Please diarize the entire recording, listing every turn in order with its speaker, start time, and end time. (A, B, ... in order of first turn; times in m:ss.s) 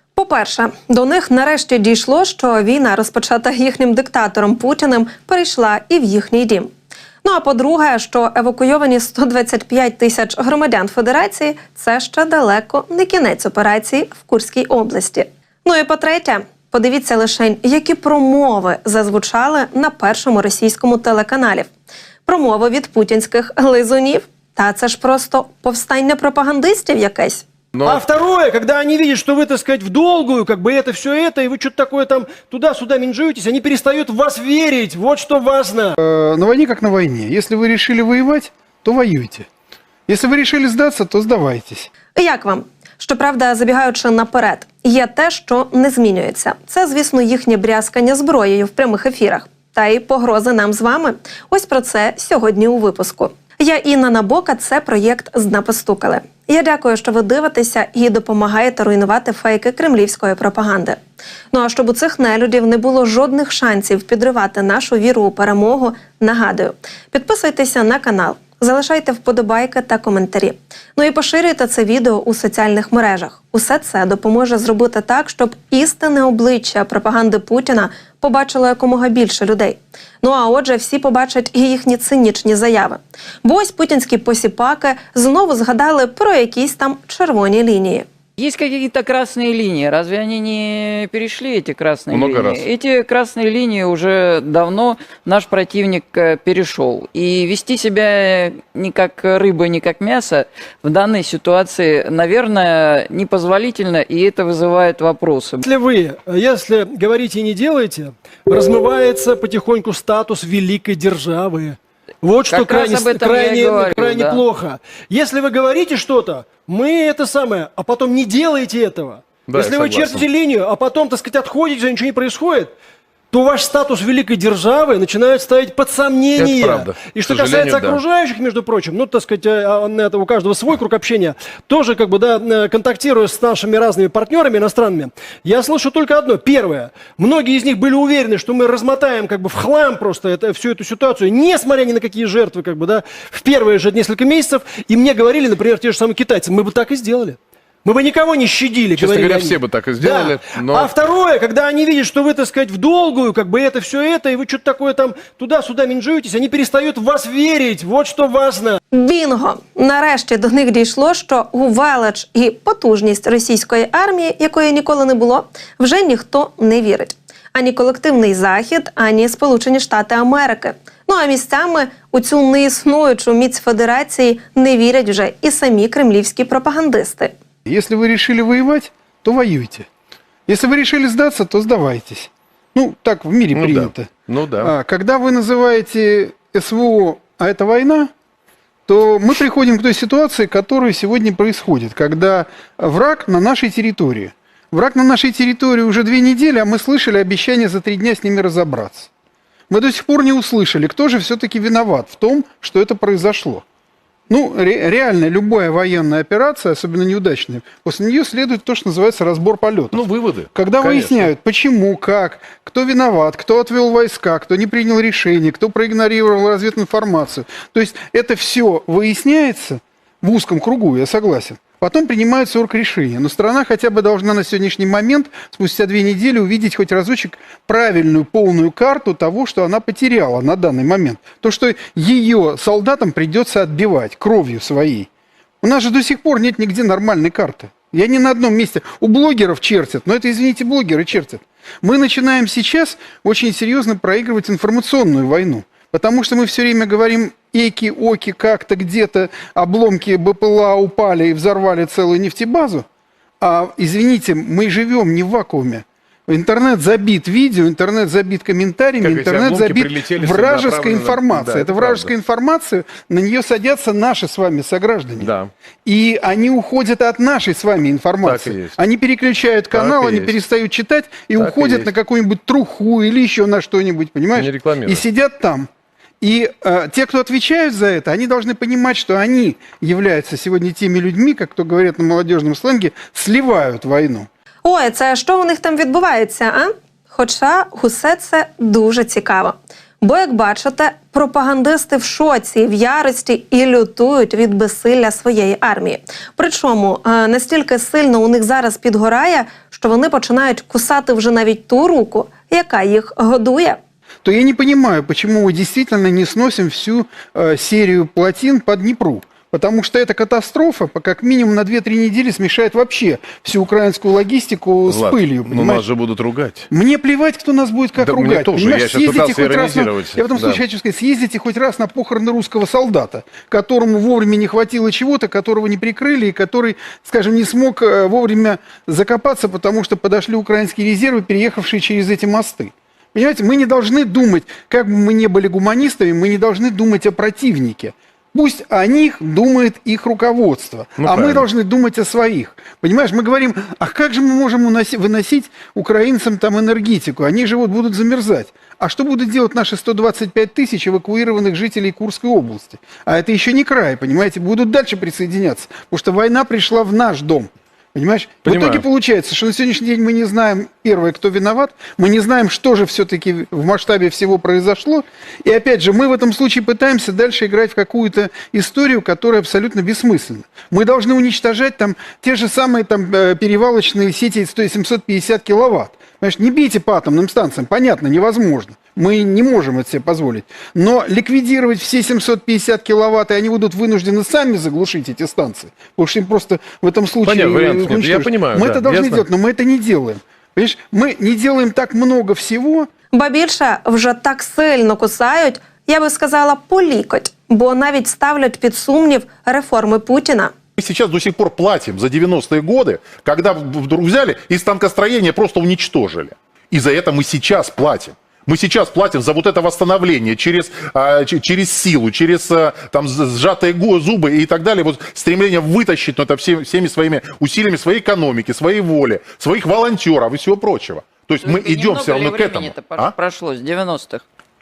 0:00.2-0:06.7 A
0:07.2-0:21.7 A
0:22.3-0:27.4 A
0:27.8-0:28.0 B
0:27.8-0:36.0 C
0:36.0-0:39.4 D
0:40.1-0:41.9 D
0:42.2-1:01.0 A
1:01.5-1:28.1 A
1:28.4-1:45.6 E
1:32.1-1:32.7 B
1:45.6-2:02.7 C
1:52.5-1:54.4 E
1:59.5-2:00.2 B
2:03.3-2:38.8 C
2:06.4-2:08.0 B
2:29.0-2:30.9 B
2:38.9-2:57.3 A
2:57.7-2:59.8 D
3:00.5-3:08.1 D
3:03.5-3:04.7 B
3:08.9-3:19.1 D
3:19.7-3:23.6 D
3:24.3-3:55.1 D
3:29.9-3:31.3 B
3:55.6-4:12.8 D
4:13.4-4:25.4 D
4:19.0-4:22.1 B
4:25.2-4:25.5 B
4:25.9-4:35.7 D
4:28.2-4:28.8 B
4:29.7-4:30.4 B
4:31.4-4:32.0 B
4:34.4-4:35.0 B
4:36.2-4:44.3 D
4:44.6-5:03.8 A
5:04.2-5:15.9 D
5:14.9-5:16.7 B
5:16.7-6:32.9 D
5:18.0-5:20.6 B
5:41.0-5:41.5 B
5:58.5-5:58.8 B
6:27.2-6:29.2 B
6:33.1-6:40.5 A
6:40.8-7:03.2 F
7:01.4-7:04.2 E